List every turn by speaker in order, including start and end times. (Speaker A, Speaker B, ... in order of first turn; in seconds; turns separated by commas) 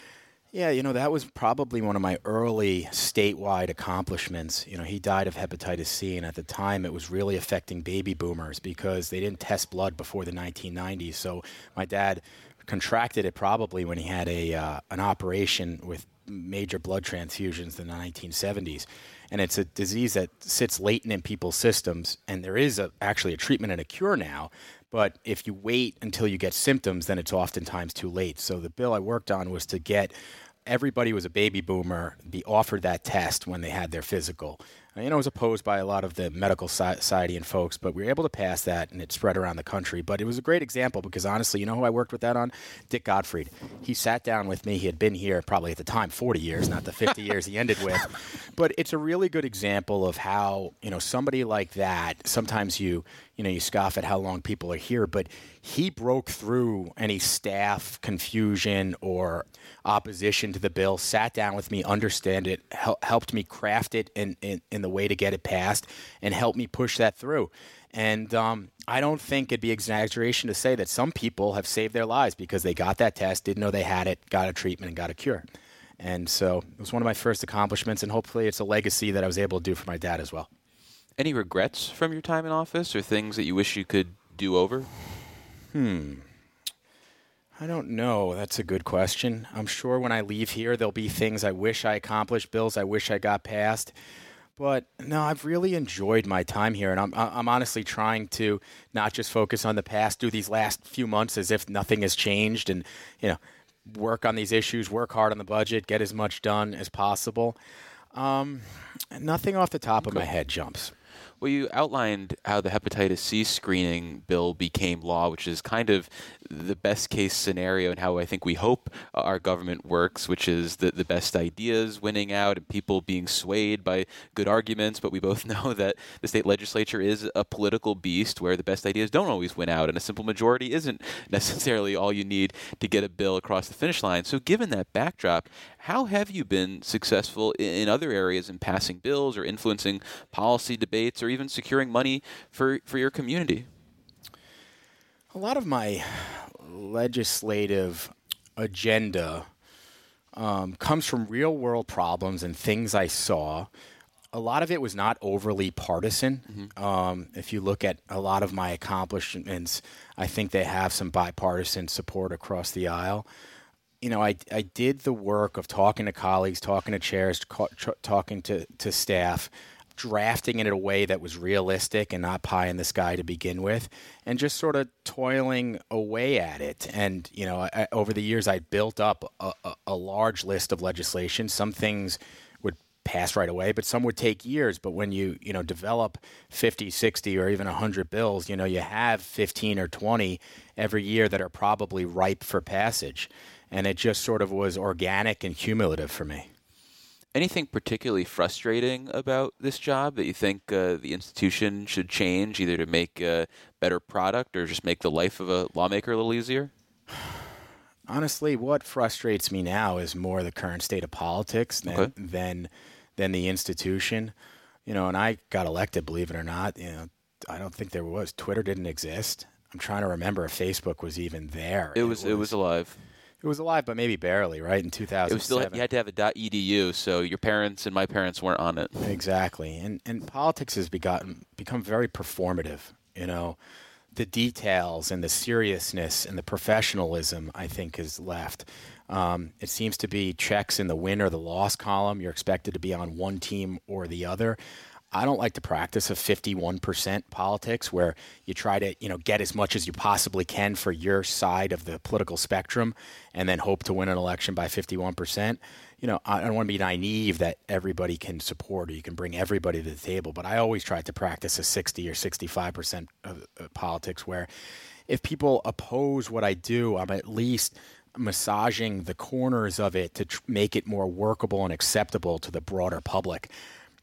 Speaker A: 0.5-30.1, Speaker A: 30.6-75.5, Speaker A: 76.0-80.5, Speaker B: 81.2-84.9, Speaker A: 85.7-86.3, Speaker A: 87.6-93.9, Speaker A: 94.6-107.6, Speaker A: 108.1-110.9, Speaker B: 111.4-143.7, Speaker A: 145.3-149.5, Speaker A: 150.3-153.7, Speaker A: 154.3-163.3, Speaker A: 164.0-196.5, Speaker B: 197.3-206.7, Speaker A: 208.1-214.3, Speaker A: 214.8-222.5, Speaker B: 221.9-223.0, Speaker A: 223.4-225.8, Speaker B: 225.3-229.1, Speaker A: 229.0-233.6, Speaker A: 234.1-244.6, Speaker A: 245.1-264.5, Speaker A: 265.1-273.5